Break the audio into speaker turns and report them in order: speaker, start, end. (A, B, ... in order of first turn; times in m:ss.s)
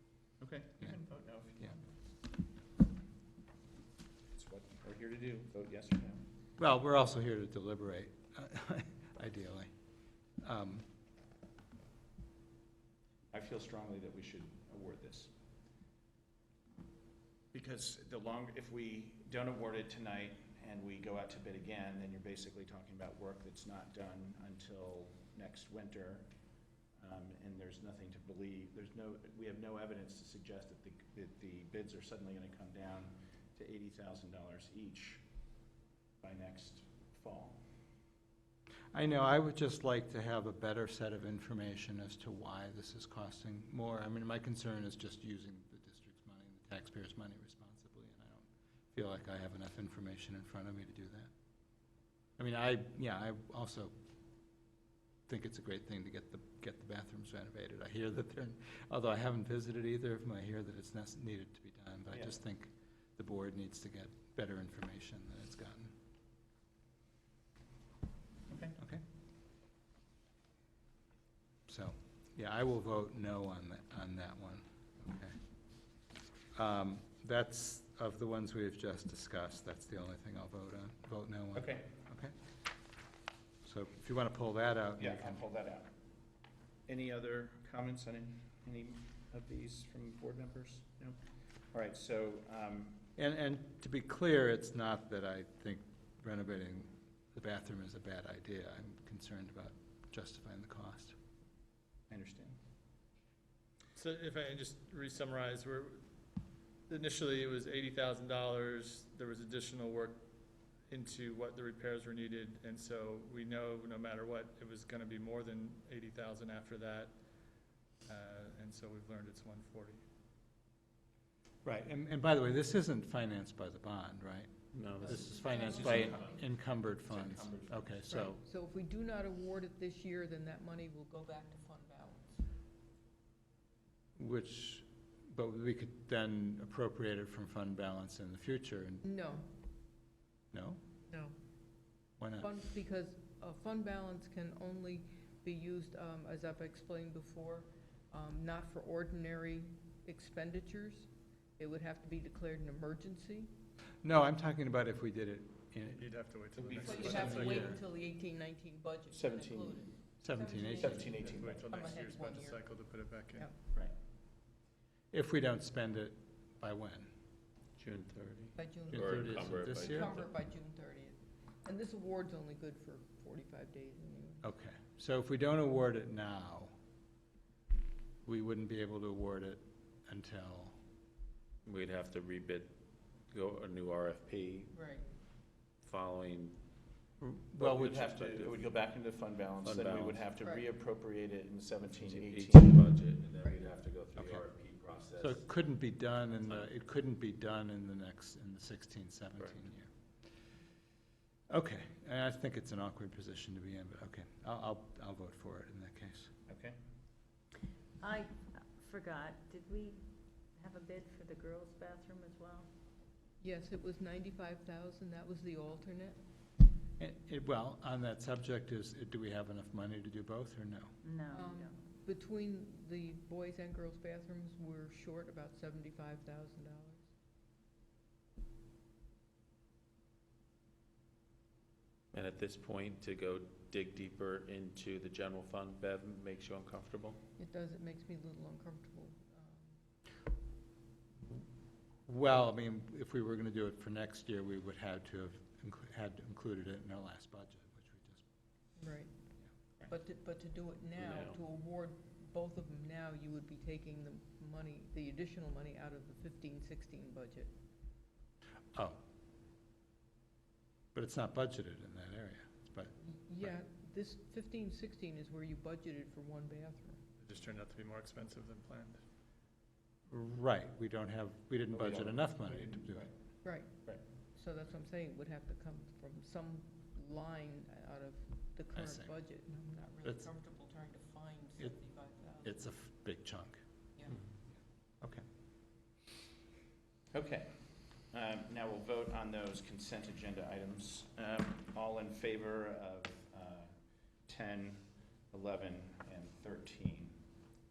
0:00.4-0:01.8 A
0:04.3-0:06.2 A
0:06.6-0:09.7 B
0:10.3-0:10.9 B
0:13.3-0:15.3 A
0:17.5-0:26.3 A
0:27.0-0:35.2 A
0:36.2-0:37.6 A
0:38.9-0:51.3 B
0:52.4-0:53.9 B
0:55.3-1:05.9 B
1:02.1-1:02.4 A
1:08.5-1:08.8 A
1:08.8-1:09.0 B
1:11.7-1:15.4 B
1:16.5-1:22.3 B
1:21.5-1:21.9 A
1:23.6-1:25.4 B
1:25.0-1:25.9 A
1:26.9-1:31.2 A
1:31.7-1:33.0 A
1:33.2-1:41.1 B
1:42.1-1:42.6 A
1:43.9-1:46.1 C
1:46.9-1:50.2 C
1:50.9-1:57.2 C
1:58.0-2:00.0 C
2:01.6-2:08.4 B
2:04.7-2:06.2 D
2:05.0-2:06.4 E
2:05.6-2:08.1 A
2:08.1-2:12.4 E
2:14.2-2:19.0 B
2:19.0-2:19.4 E
2:20.5-2:20.8 B
2:21.1-2:21.3 E
2:22.2-2:22.5 B
2:22.4-2:33.5 E
2:34.0-2:36.1 B
2:35.9-2:37.7 C
2:36.6-2:37.4 A
2:36.7-2:37.8 B
2:36.8-2:42.6 E
2:39.1-2:39.9 A
2:40.2-2:41.1 B
2:40.7-2:41.8 A
2:41.2-2:43.5 C
2:45.1-2:47.1 B
2:47.8-2:50.2 D
2:48.5-2:54.4 E
2:48.9-2:50.3 B
2:54.4-2:56.7 B
2:58.2-3:00.8 B
3:01.6-3:02.7 D
3:03.3-3:04.7 D
3:04.7-3:05.0 E
3:05.8-3:06.6 D
3:07.2-3:07.9 B
3:07.6-3:12.8 A
3:07.7-3:08.6 D
3:09.6-3:10.2 D
3:11.9-3:15.4 D
3:14.2-3:14.4 B
3:15.2-3:19.9 B
3:19.4-3:19.7 D
3:21.5-3:26.3 B
3:26.5-3:26.8 A
3:28.0-3:30.0 F
3:30.6-3:32.7 F
3:33.4-3:36.2 E
3:37.0-3:40.9 B
3:41.0-3:41.8 F
3:41.3-3:47.0 E
3:52.1-3:57.2 D
3:57.4-3:59.8 E
4:02.0-4:08.2 B
4:08.8-4:09.1 E
4:09.9-4:17.5 E
4:11.0-4:11.3 D
4:18.7-4:19.0 B
4:20.9-4:23.6 B
4:23.2-4:27.0 E
4:27.2-4:29.0 C
4:30.1-4:33.1 B
4:31.7-4:32.2 A
4:33.4-4:33.8 E
4:34.3-4:42.6 E
4:38.7-4:39.1 B
4:40.0-4:40.3 B
4:42.4-4:43.6 B
4:44.1-4:44.3 D
4:47.1-4:57.2 A